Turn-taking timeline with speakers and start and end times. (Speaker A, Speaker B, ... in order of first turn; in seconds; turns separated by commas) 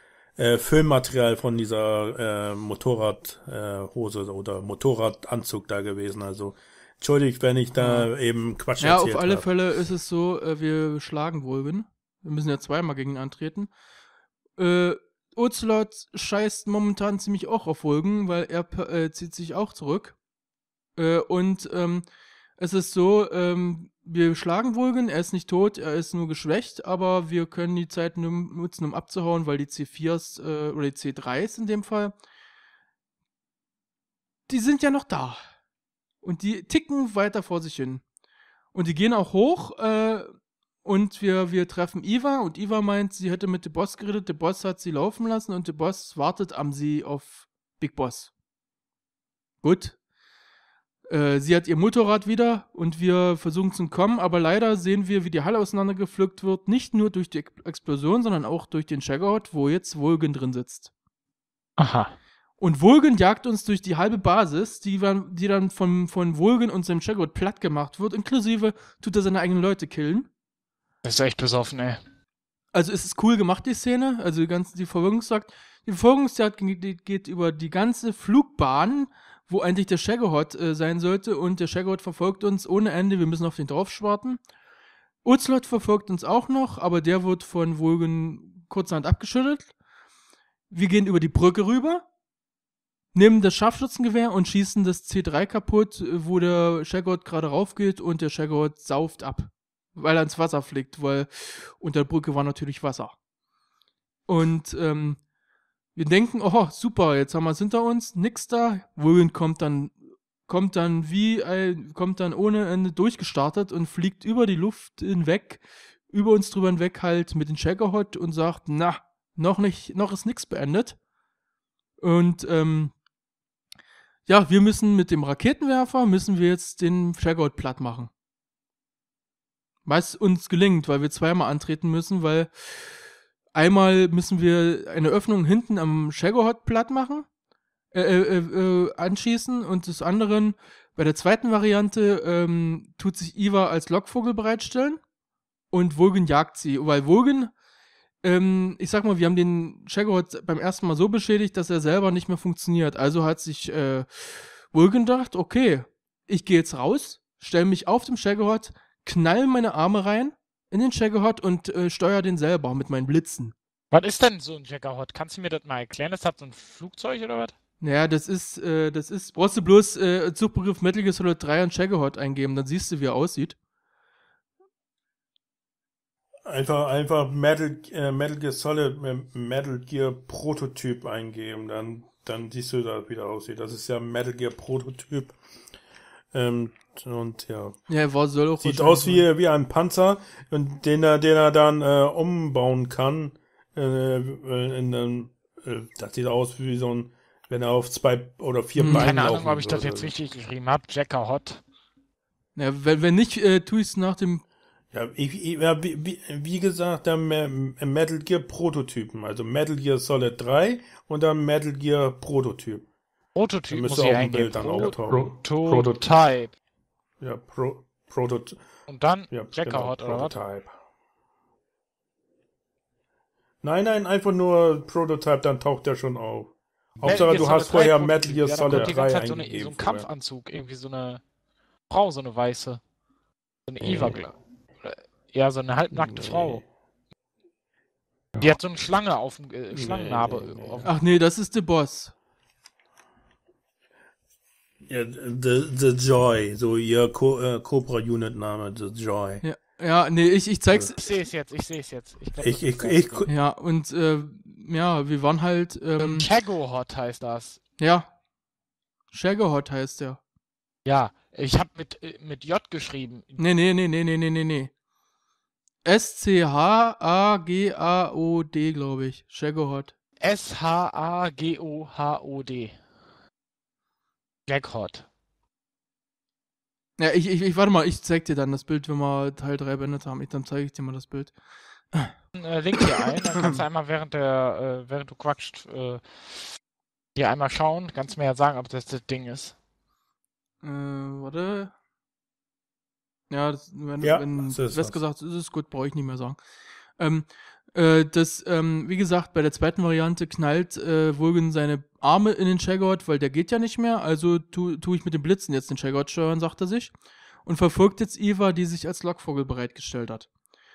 Speaker A: 0.4-9.5, Speaker B: 7.8-8.1, Speaker B: 8.8-13.7, Speaker B: 14.6-20.2, Speaker B: 21.0-22.1, Speaker B: 22.6-32.1, Speaker B: 34.5-35.4, Speaker B: 36.2-38.0, Speaker B: 38.7-40.3, Speaker B: 40.8-48.3, Speaker B: 49.6-50.0, Speaker B: 51.1-60.9, Speaker C: 61.8-62.1, Speaker B: 62.6-70.3, Speaker C: 71.0-72.0, Speaker B: 72.7-84.4, Speaker B: 85.2-89.7, Speaker B: 90.7-92.1, Speaker B: 93.1-103.1, Speaker B: 104.3-105.2, Speaker B: 106.0-121.0, Speaker B: 122.0-123.0, Speaker B: 124.3-128.1, Speaker B: 129.9-133.0, Speaker B: 133.5-137.3, Speaker B: 137.9-145.0, Speaker B: 145.7-147.5, Speaker B: 148.2-163.6, Speaker C: 163.9-167.6, Speaker B: 167.8-173.6, Speaker A: 176.5-185.4, Speaker A: 186.3-187.8, Speaker B: 187.9-189.3, Speaker A: 188.6-200.1, Speaker B: 198.8-199.1, Speaker C: 198.9-201.6, Speaker B: 202.6-204.4, Speaker A: 204.9-212.9, Speaker C: 213.3-216.5, Speaker A: 213.7-216.0, Speaker A: 217.2-218.6, Speaker C: 218.9-220.4, Speaker A: 219.3-220.7, Speaker A: 223.6-230.1, Speaker C: 227.0-231.2, Speaker C: 231.9-232.8, Speaker C: 233.7-236.7, Speaker A: 233.8-234.2, Speaker A: 235.9-236.6, Speaker C: 238.4-241.0, Speaker A: 239.7-240.9, Speaker B: 240.8-242.1, Speaker A: 244.8-249.4, Speaker B: 249.4-251.0, Speaker C: 250.9-253.3, Speaker A: 252.4-253.3, Speaker B: 253.3-256.3, Speaker C: 256.0-257.6, Speaker B: 257.8-258.1, Speaker B: 259.1-260.2, Speaker C: 260.9-263.4, Speaker B: 263.4-264.7, Speaker B: 265.9-269.9, Speaker C: 270.2-272.8, Speaker C: 274.5-275.1, Speaker B: 277.0-281.3, Speaker C: 282.4-286.5, Speaker C: 287.1-289.6, Speaker B: 290.6-291.7, Speaker B: 293.3-296.4, Speaker A: 294.0-295.0, Speaker B: 297.0-306.9, Speaker B: 307.4-310.3